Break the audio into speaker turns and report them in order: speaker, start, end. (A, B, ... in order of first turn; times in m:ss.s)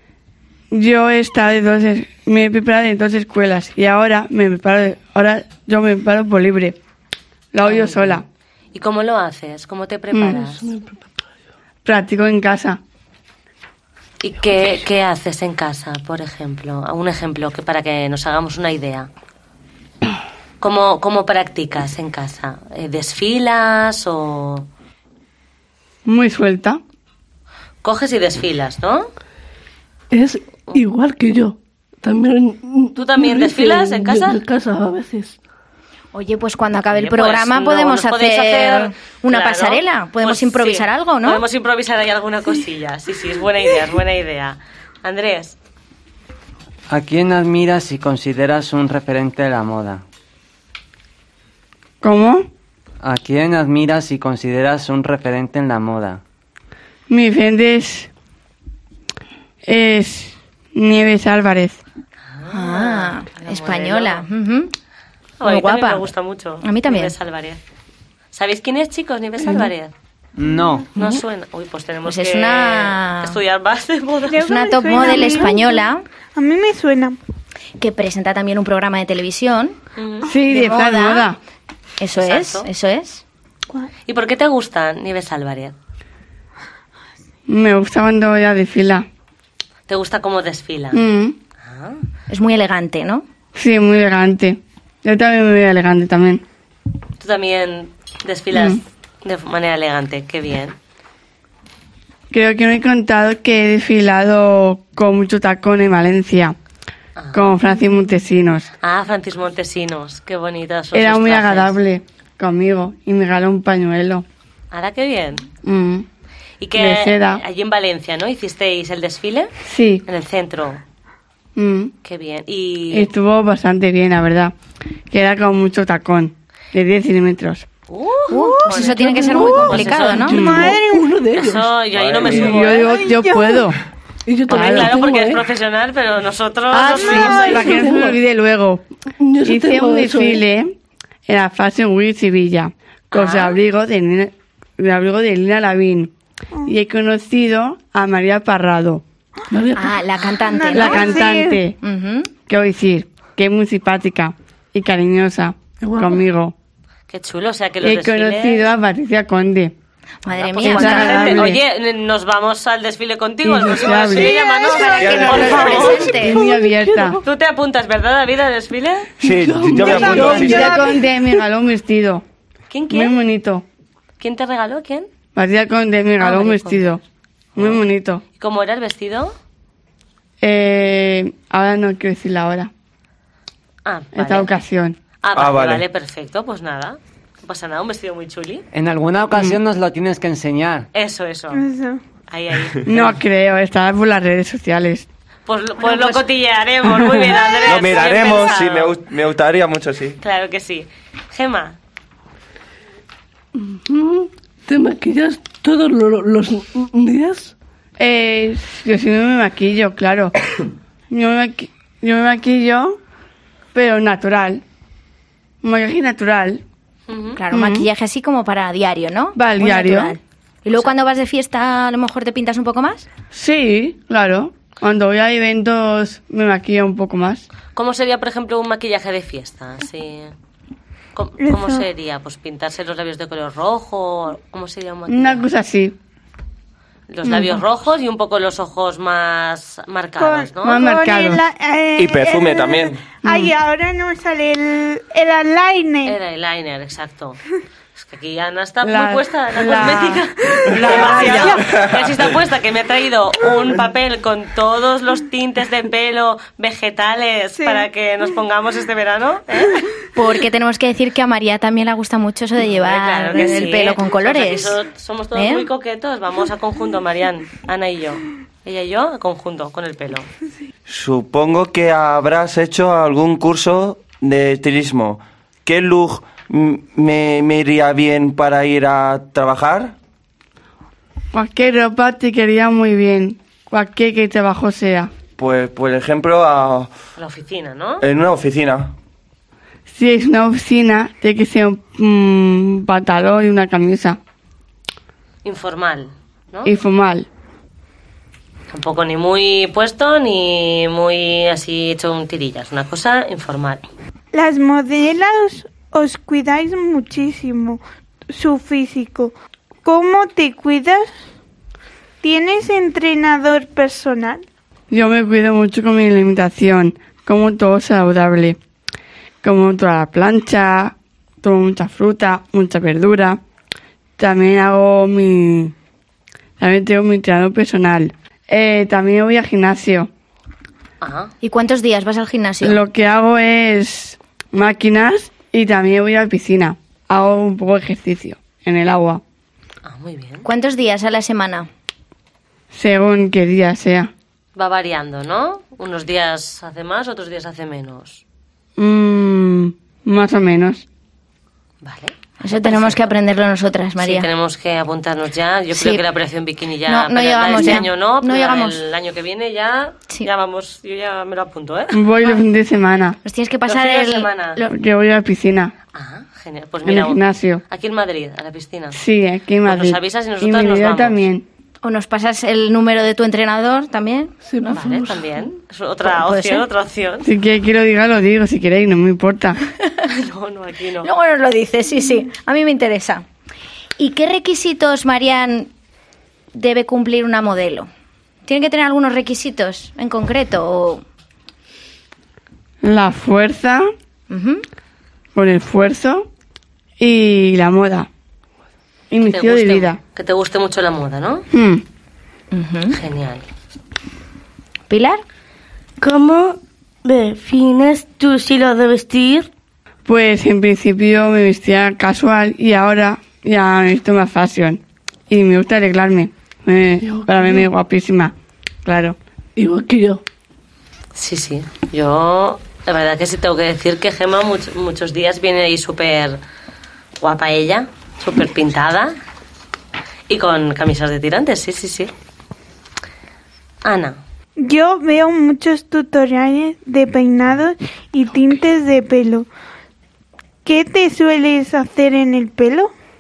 0:00.7-0:06.8 A
0:07.5-0:08.2 A
0:07.6-0:10.6 B
0:10.1-0:10.4 A
0:10.3-0:11.2 C
0:11.8-0:12.8 A
0:14.2-0:19.1 B
0:20.6-0:24.7 B
0:26.0-0:26.8 A
0:27.8-0:29.1 B
0:30.1-0:35.4 C
0:33.0-0:34.4 B
0:36.1-0:41.4 D
0:36.9-0:45.6 B
0:46.9-0:50.0 E
0:52.0-0:52.5 A
0:53.0-0:56.2 E
0:57.1-0:58.1 A
0:59.6-1:01.8 A
1:02.3-1:04.2 B
1:02.5-1:04.7 D
1:05.4-1:07.6 B
1:05.4-1:06.0 D
1:06.6-1:07.1 D
1:08.3-1:09.9 B
1:10.4-1:10.9 E
1:11.0-1:15.4 B
1:12.1-1:13.4 D
1:14.3-1:15.8 F
1:14.3-1:16.0 D
1:16.3-1:17.2 F
1:17.8-1:19.8 D
1:20.0-1:20.3 B
1:20.2-1:21.4 A
1:20.5-1:21.3 D
1:22.0-1:23.2 D
1:22.2-1:22.7 B
1:24.1-1:25.7 B
1:27.5-1:29.1 A
1:29.9-1:31.0 B
1:30.9-1:31.4 A
1:31.6-1:32.0 B
1:32.3-1:33.2 D
1:33.5-1:36.4 A
1:37.2-1:40.8 B
1:38.5-1:38.8 A
1:42.3-1:46.6 A
1:47.2-1:47.6 B
1:47.3-1:48.7 A
1:48.8-1:51.7 B
1:50.9-1:54.2 A
1:54.7-1:55.5 B
1:55.6-1:56.1 A
1:56.6-1:59.5 B
1:56.7-1:57.4 A
1:59.6-2:00.0 A
2:00.0-2:00.8 B
2:01.6-2:01.9 A
2:02.0-2:03.1 B
2:02.9-2:04.5 A
2:05.1-2:07.7 A
2:07.9-2:10.4 B
2:08.3-2:10.4 D
2:08.8-2:11.7 C
2:10.3-2:11.1 F
2:10.4-2:10.7 A
2:11.3-2:13.0 B
2:11.9-2:12.7 G
2:12.2-2:13.8 A
2:12.8-2:13.7 F
2:14.2-2:15.4 C
2:14.5-2:17.8 B
2:14.5-2:14.9 A
2:16.7-2:18.8 A
2:17.6-2:18.2 C
2:19.2-2:20.4 C
2:19.4-2:20.8 A
2:21.3-2:26.1 A
2:23.1-2:23.4 B
2:26.6-2:29.0 A
2:29.5-2:30.0 C
2:29.7-2:31.2 D
2:30.4-2:31.6 F
2:30.7-2:31.8 A
2:31.8-2:32.3 D
2:32.5-2:36.5 A
2:35.8-2:36.2 C
2:37.1-2:38.7 B
2:37.8-2:39.7 A
2:40.2-2:41.5 D
2:40.3-2:46.1 B
2:40.6-2:41.6 A
2:43.4-2:47.2 A
2:44.6-2:46.4 D
2:45.0-2:45.9 G
2:46.1-2:47.2 C
2:47.2-2:49.1 B
2:49.2-2:50.8 G
2:49.2-2:51.1 C
2:49.9-2:52.2 A
2:52.7-2:53.2 B
2:52.9-2:53.6 A
2:54.2-2:55.1 B
2:55.3-2:57.0 A
2:56.2-2:56.8 B
2:57.6-2:58.2 A
2:58.4-2:59.3 B
3:00.4-3:02.7 A
3:03.8-3:04.5 B
3:04.1-3:05.0 A
3:05.2-3:08.6 B
3:05.3-3:05.8 G
3:08.7-3:10.9 E
3:10.9-3:11.6 B
3:11.5-3:12.0 F
3:12.3-3:13.2 B
3:12.8-3:15.1 A
3:15.4-3:18.9 B
3:16.9-3:17.3 A
3:17.6-3:20.2 G
3:20.2-3:21.8 B
3:23.5-3:27.5 C
3:28.0-3:30.3 A
3:31.1-3:33.0 A
3:33.7-3:34.6 A
3:35.6-3:36.6 A
3:37.1-3:37.4 B
3:37.4-3:43.0 D
3:37.5-3:37.9 A
3:39.4-3:40.2 A
3:43.3-3:47.4 A
3:47.7-3:50.3 B
3:51.1-3:55.4 B
3:51.4-3:51.8 F
3:55.1-3:56.0 A
3:57.1-4:00.8 B
3:57.2-3:57.6 A
4:00.2-4:06.2 F
4:00.6-4:01.4 A
4:02.0-4:03.0 G
4:03.2-4:03.5 A
4:06.0-4:07.4 B
4:08.0-4:19.9 B
4:08.8-4:11.7 A
4:11.7-4:12.1 G
4:17.6-4:17.8 F
4:20.1-4:24.8 D
4:22.6-4:30.3 B
4:25.3-4:25.6 D
4:30.9-4:40.0 G
4:41.3-4:45.1 A
4:45.4-4:46.9 G
4:47.2-4:48.0 B
4:48.0-4:48.9 G
4:49.9-4:54.2 A
4:55.4-4:56.7 B
4:56.6-4:57.3 A
4:58.7-5:03.8 B
5:04.3-5:11.1 F
5:12.2-5:14.4 F
5:14.9-5:18.6 A
5:19.4-5:23.4 A
5:24.2-5:25.7 A
5:26.6-5:30.1 A
5:31.0-5:31.3 B
5:31.4-5:32.8 D
5:32.6-5:39.2 A
5:39.8-5:40.4 B
5:40.4-5:41.7 D
5:42.7-5:44.1 A
5:44.6-5:48.2 B
5:48.8-5:50.8 A
5:51.8-5:53.0 B
5:52.4-5:54.3 D
5:54.0-6:02.0 B
5:55.7-5:56.0 D
5:56.9-5:58.8 D
6:01.9-6:03.2 A
6:03.2-6:04.7 D
6:03.7-6:04.6 B
6:04.7-6:05.7 A
6:05.9-6:09.0 B
6:06.8-6:07.6 A
6:08.9-6:11.4 A
6:09.6-6:11.2 B
6:11.8-6:14.8 D
6:14.4-6:15.4 C
6:14.7-6:17.3 B
6:16.0-6:16.6 D
6:17.2-6:19.6 A
6:20.1-6:21.1 B
6:21.0-6:23.2 D
6:24.0-6:25.7 D
6:26.5-6:27.9 D
6:28.4-6:31.0 D
6:32.8-6:33.9 A
6:34.3-6:34.6 D
6:35.3-6:36.3 A
6:37.0-6:38.1 A
6:39.1-6:40.0 A
6:39.2-6:41.4 B
6:41.5-6:41.8 A
6:42.5-6:43.0 D
6:42.9-6:43.4 B
6:44.9-6:45.2 D
6:46.0-6:49.5 H
6:50.0-6:58.3 A
6:57.0-6:57.7 C
6:58.8-6:59.2 A
6:59.6-7:00.2 C
7:01.1-7:06.4 B
7:07.2-7:09.1 B
7:10.3-7:12.1 B
7:13.8-7:14.2 B
7:14.6-7:19.5 F
7:20.6-7:22.9 F